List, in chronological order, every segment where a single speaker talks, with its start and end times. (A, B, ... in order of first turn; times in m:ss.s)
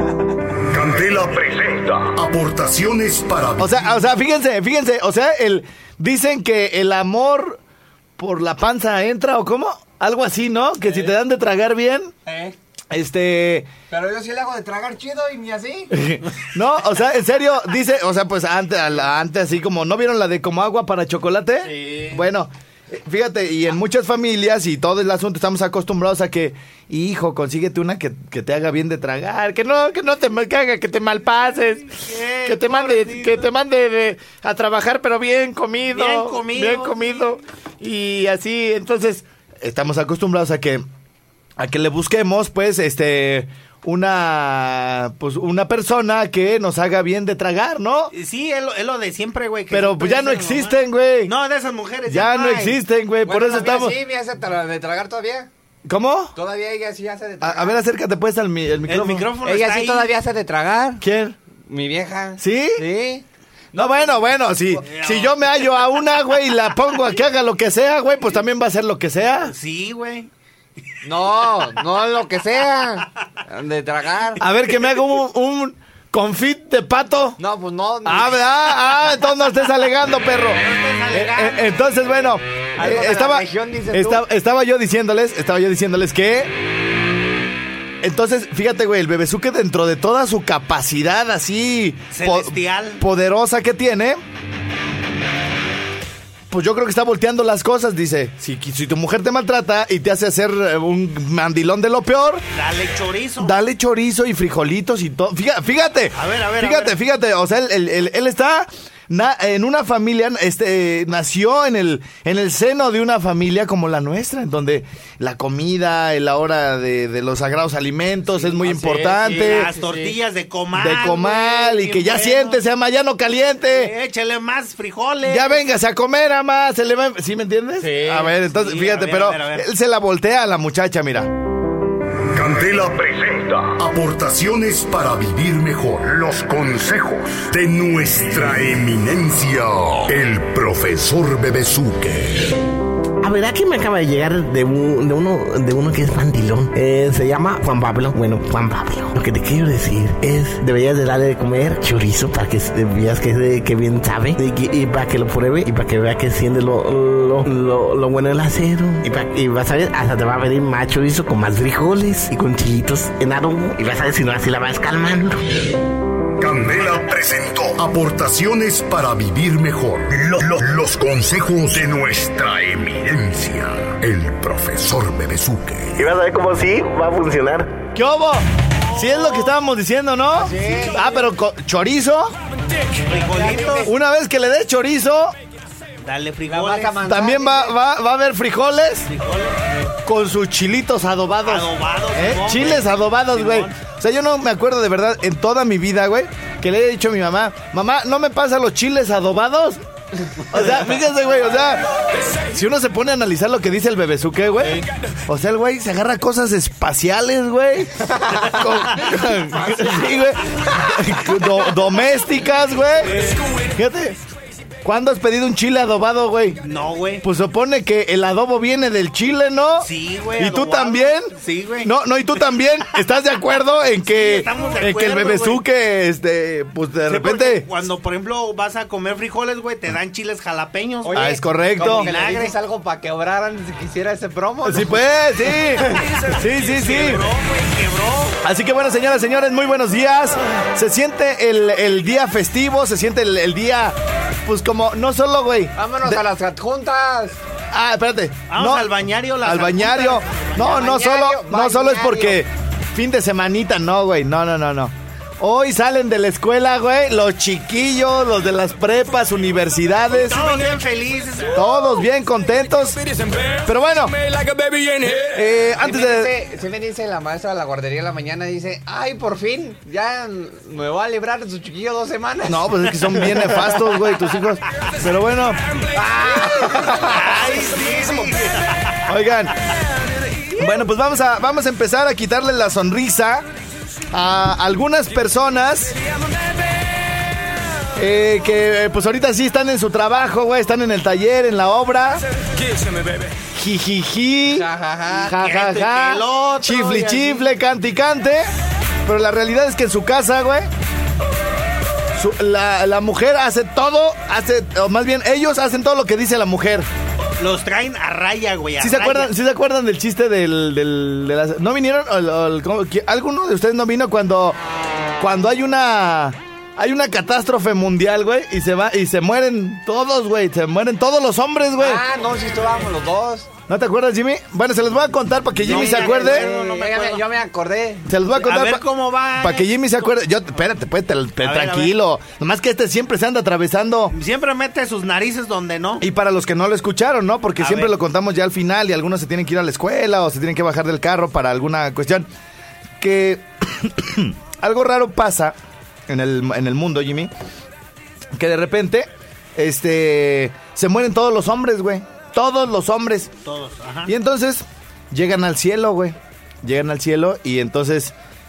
0:00.7-0:03.8 A
0:03.6-0:07.6 B
0:08.2-0:12.1 B
0:12.2-0:12.5 C
0:12.9-0:13.7 B
0:13.9-0:15.9 C
0:15.9-0:40.8 B
0:21.6-0:22.2 C
0:31.9-0:33.4 D
0:35.9-0:37.0 D
0:41.6-0:48.1 B
0:48.1-0:50.7 D
0:49.7-0:51.3 B
0:51.2-0:52.8 D
0:52.1-0:54.0 B
0:53.2-0:55.5 C
0:55.8-0:56.3 B
0:56.3-0:57.8 C
0:57.4-0:59.3 B
0:58.9-1:00.1 D
0:59.4-1:01.0 C
1:01.0-1:01.4 B
1:01.7-1:03.2 C
1:02.4-1:02.8 B
1:03.7-1:09.5 B
1:04.9-1:05.3 D
1:09.4-1:10.3 D
1:11.0-1:14.4 C
1:14.4-1:17.4 B
1:17.4-1:18.4 C
1:18.0-1:26.5 B
1:20.6-1:21.7 D
1:22.8-1:24.2 C
1:28.0-1:34.2 B
1:32.1-1:33.0 D
1:36.5-1:42.4 B
1:42.5-1:43.5 D
1:43.4-1:59.7 B
1:46.1-1:46.9 D
1:58.4-2:00.1 C
1:59.3-2:02.6 D
2:00.7-2:03.9 B
2:03.6-2:05.6 D
2:05.2-2:11.3 B
2:07.8-2:08.3 C
2:08.4-2:09.6 D
2:12.3-2:22.5 A
2:23.2-2:45.4 E
2:46.4-2:56.0 A
2:56.0-2:57.7 E
2:57.9-3:02.3 B
2:58.9-2:59.5 D
3:00.3-3:01.1 C
3:03.1-3:03.9 D
3:03.1-3:03.9 C
3:03.8-3:05.3 B
3:06.0-3:07.0 D
3:06.5-3:07.7 C
3:07.0-3:09.1 B
3:09.1-3:09.7 D
3:10.0-3:19.8 B
3:11.4-3:13.7 D
3:20.5-3:34.2 B
3:33.1-3:33.4 D
3:34.8-3:36.6 B
3:36.6-3:37.2 D
3:37.2-3:41.3 B
3:39.8-3:41.9 D
3:41.8-3:47.6 B
3:44.1-3:45.6 D
3:47.1-3:52.5 D
3:51.0-3:55.0 C
3:51.1-3:52.1 B
3:54.6-3:57.2 B
3:56.0-3:58.4 D
3:58.4-4:06.2 B
4:05.8-4:07.4 C
4:07.7-4:20.6 B
4:08.5-4:10.6 D
4:10.6-4:12.4 C
4:20.1-4:21.8 D
4:21.5-4:26.3 B
4:25.8-4:33.4 C
4:32.4-4:35.6 B
4:35.9-4:37.4 C
4:37.0-4:39.0 D
4:39.1-4:39.5 B
4:40.5-4:43.4 B
4:44.1-4:46.0 B
4:48.0-4:52.2 B
4:53.5-4:54.7 B
4:54.5-4:55.4 C
4:55.2-4:58.5 B
4:55.3-4:57.4 D
4:59.0-5:00.7 B
5:02.1-5:06.9 B
5:07.4-5:09.3 D
5:08.8-5:14.6 B
5:15.2-5:22.0 B
5:21.8-5:23.5 C
5:23.7-5:26.5 B
5:25.6-5:27.2 D
5:25.6-5:28.1 C
5:28.0-5:28.8 B
5:28.4-5:29.6 D
5:29.4-5:34.1 B
5:31.4-5:31.9 D
5:34.1-5:36.0 D
5:36.0-5:42.3 B
5:37.6-5:37.9 D
5:43.0-5:45.6 B
5:46.1-5:47.3 B
5:48.3-5:53.3 B
5:53.4-5:54.1 D
5:54.0-5:58.1 B